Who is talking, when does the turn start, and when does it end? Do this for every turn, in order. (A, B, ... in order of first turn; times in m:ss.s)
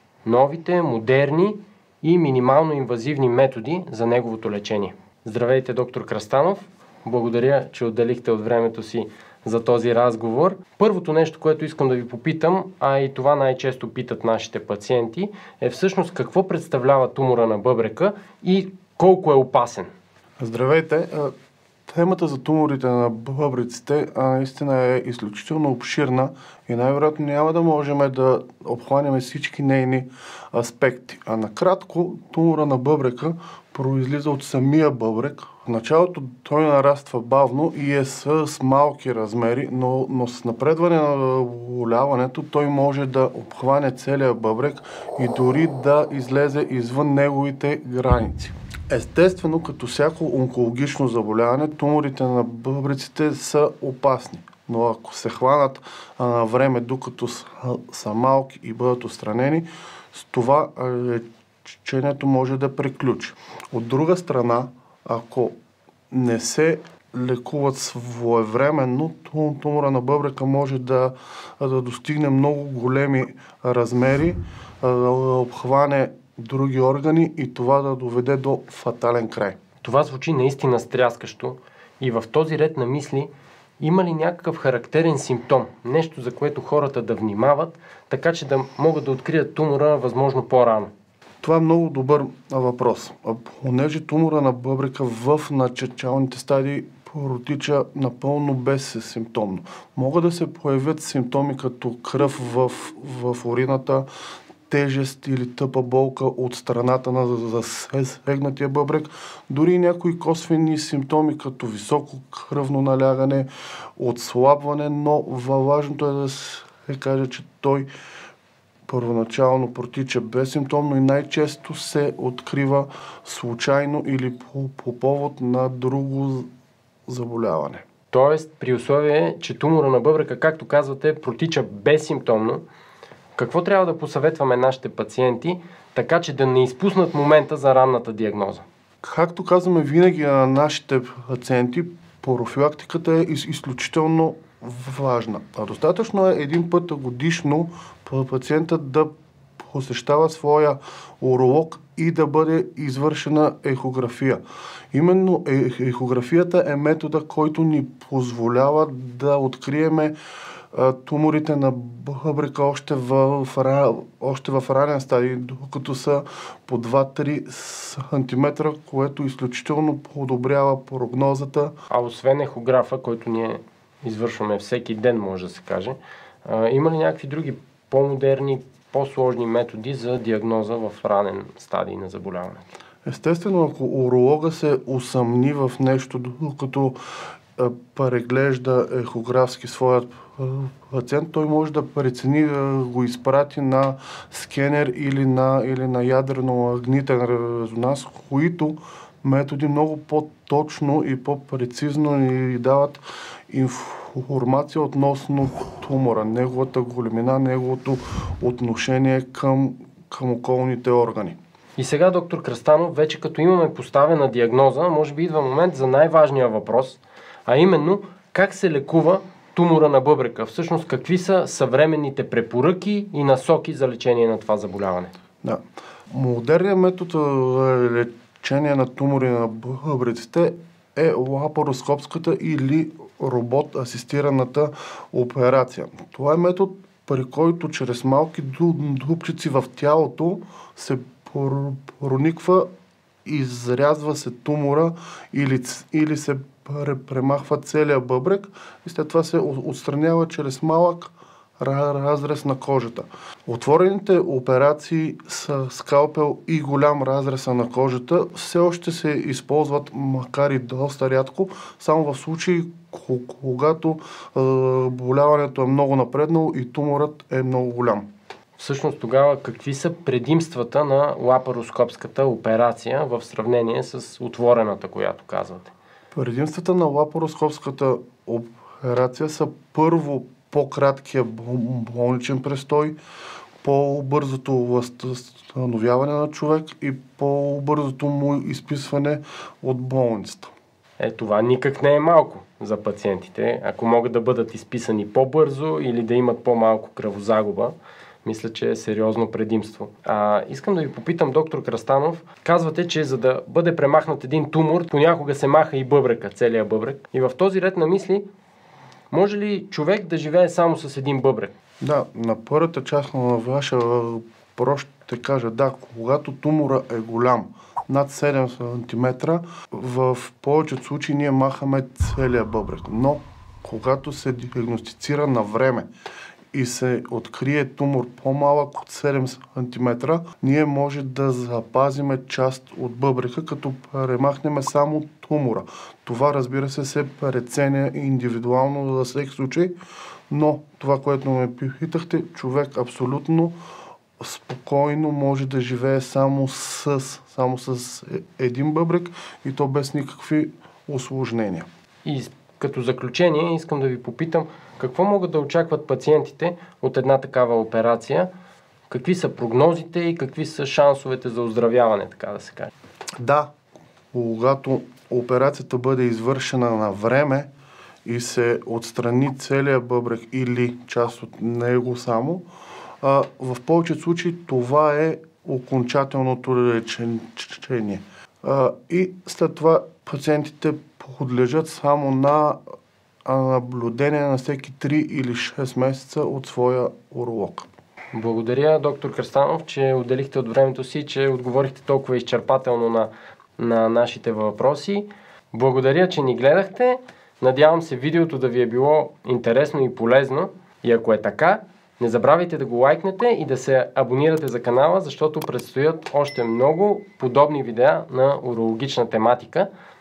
0:00.2-0:19.9 A
0:20.4-0:21.3 B
0:21.9-1:05.5 B
1:06.1-1:19.6 B
1:19.8-1:30.9 A
1:31.4-1:44.1 B
1:44.7-1:57.9 B
1:58.9-2:06.5 B
2:07.1-2:07.8 B
2:08.1-2:12.6 A
2:13.4-2:18.6 A
2:19.0-2:34.4 B
2:34.9-2:40.1 B
2:40.7-2:51.8 B
2:51.9-3:02.6 A
3:03.0-3:07.0 B
3:07.6-3:31.4 B
3:31.8-3:45.1 A
3:45.4-4:02.7 B
4:03.2-4:28.0 B
4:28.6-4:35.7 A
4:36.1-4:43.0 B
4:43.6-4:50.5 B
4:51.0-5:08.3 A
5:09.1-5:11.5 A
5:11.8-5:25.9 B
5:26.5-5:39.8 B
5:40.3-5:43.5 B
5:44.2-5:51.7 B
5:52.0-5:58.3 A
5:58.9-6:02.7 A
6:03.2-6:03.5 B
6:04.1-6:07.5 B
6:08.0-6:12.4 B
6:13.0-6:22.6 B
6:23.3-6:27.7 B
6:28.1-6:49.7 A